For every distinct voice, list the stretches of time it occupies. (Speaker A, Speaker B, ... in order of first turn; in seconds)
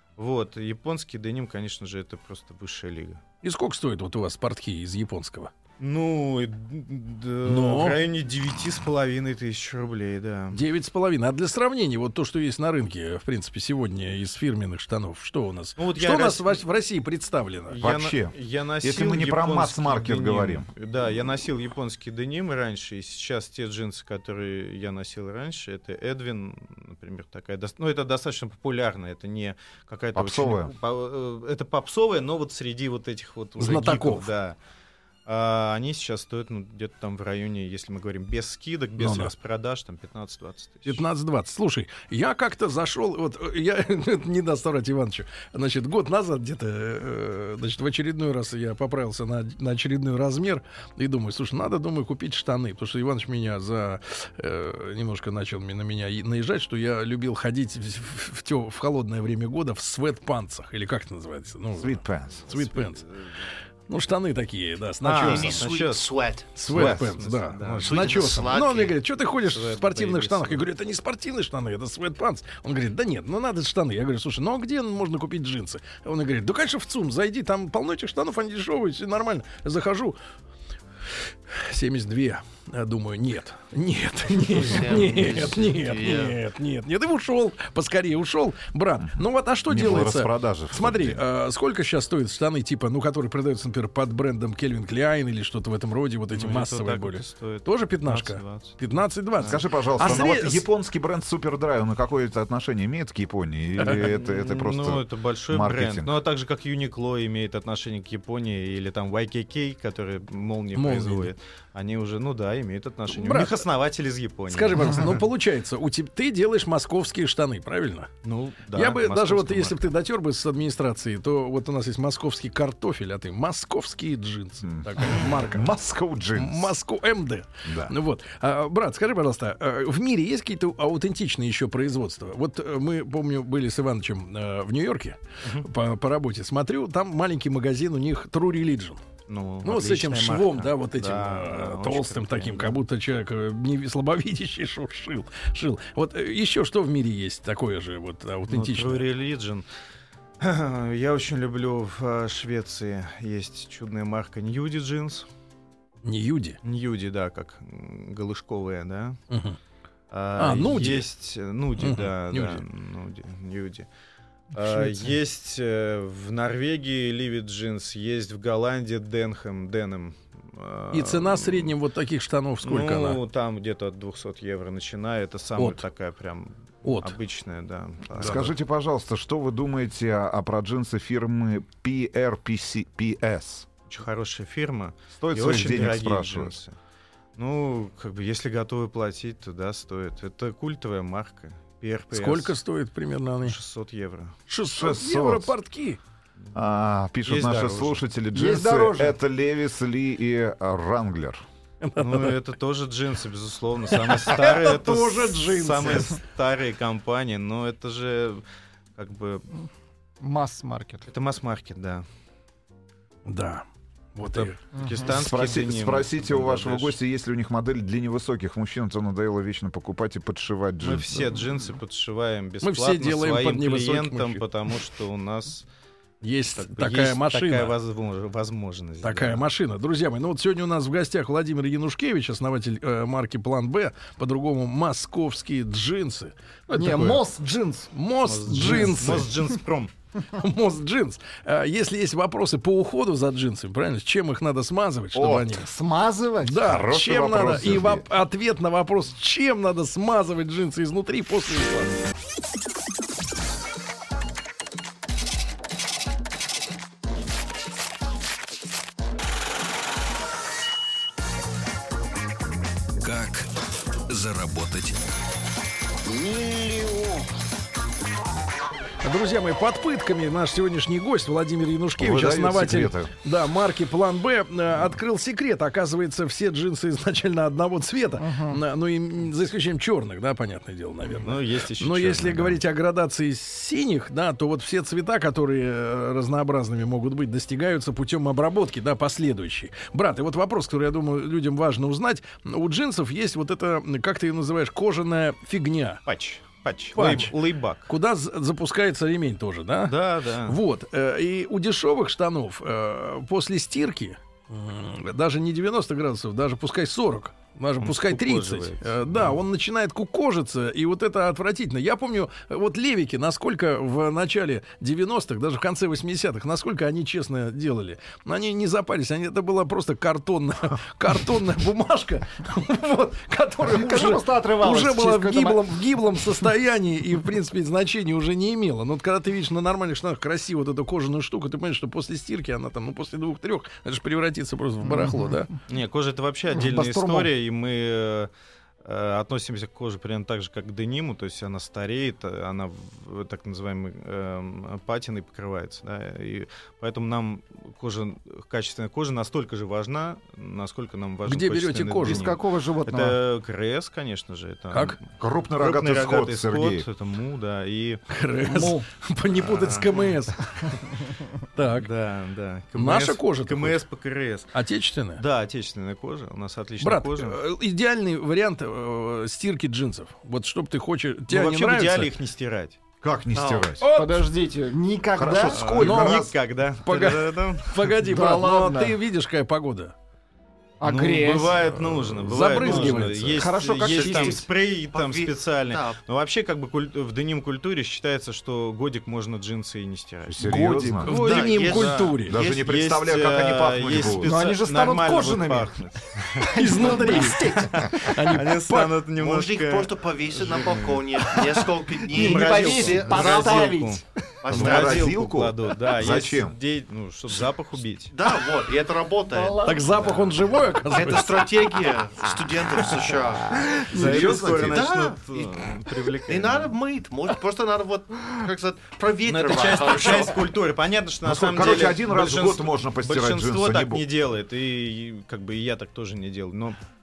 Speaker A: 0.2-3.2, 5.8-10.6, 15.8-16.6, 17.7-34.6, 35.2-41.0, 62.5-63.2, 65.0-68.3, 69.4-70.7, 96.3-98.8, 99.4-100.2, 103.8-115.2, 118.2-119.9, 139.3-142.8, 148.5-149.7, 150.4-155.3, 156.6-159.2, 160.1-163.9, 164.5-171.7, 172.6-178.5, 183.9-186.8, 187.4-192.6, 193.4-194.3, 197.2-198.0, 201.9-208.4, 209.0-209.5, 211.1-212.1, 214.3-216.9, 220.8-225.7, 226.5-229.5, 238.2-239.9, 281.1-282.6, 296.1-297.9, 299.9-300.6, 307.8-309.4, 335.7-338.3, 338.8-358.0, 359.4-360.1, 361.7-364.5, 365.1-367.4, 371.3-372.8, 375.5-377.9, 380.8-401.4, 402.0-408.1, 413.8-416.7, 419.2-426.8
Speaker B: 3.4-5.5, 7.4-8.0, 10.5-17.8, 33.6-34.3, 39.0-39.3, 40.9-63.1, 63.9-65.7, 66.5-80.2, 81.5-100.6, 110.7-111.3, 113.1-113.6, 114.5-118.1, 118.7-125.7, 126.3-139.0, 139.6-149.1, 156.0-156.6, 159.3-159.6, 160.4-161.1, 161.8-162.6, 170.9-173.2, 175.6-175.8, 176.8-177.1, 192.1-193.6, 194.5-196.0, 201.8-202.4, 203.9-206.2, 213.2-214.6, 222.6-224.4, 226.2-227.8, 229.0-237.2, 237.9-239.3, 240.3-245.7, 246.4-252.0, 269.0-296.0, 296.9-335.5, 351.2-352.3, 354.7-355.0, 358.1-360.9, 361.5-361.9, 362.7-363.8, 364.5-365.2, 366.8-372.1, 373.8-374.3, 375.8-379.9, 382.2-383.5, 390.4-392.4, 396.5-399.0, 409.6-411.4
Speaker C: 17.8-20.7, 30.1-30.7, 61.8-62.5, 89.7-91.2, 99.4-106.1, 124.6-126.7, 127.6-127.9, 178.2-183.7, 185.2-186.6, 194.7-195.5, 196.5-201.4, 215.0-221.3, 245.1-245.5, 246.6-248.1, 272.0-273.1, 355.2-356.9, 373.0-373.9, 375.1-376.3, 390.3-391.4, 392.2-394.4, 404.5-406.6, 413.9-414.9, 421.2-424.0
Speaker D: 65.2-67.0, 67.7-69.0, 84.5-86.4, 373.3-373.8, 383.8-386.0, 391.1-392.6, 399.1-403.7, 404.4-405.2, 408.1-410.0, 410.9-420.5
Speaker E: 198.3-199.2, 210.2-211.1, 214.8-215.1, 236.7-237.9, 238.6-239.2, 245.6-246.7, 278.2-278.6, 323.7-325.7, 334.8-335.4, 336.5-337.3, 352.0-353.2, 358.5-358.9, 373.9-375.9, 378.0-378.9, 380.8-381.8, 382.3-384.5, 394.1-395.7, 396.4-398.1, 401.4-404.1, 409.3-410.2, 412.9-414.5
Speaker F: 263.0-263.5, 264.1-265.0, 266.0-267.3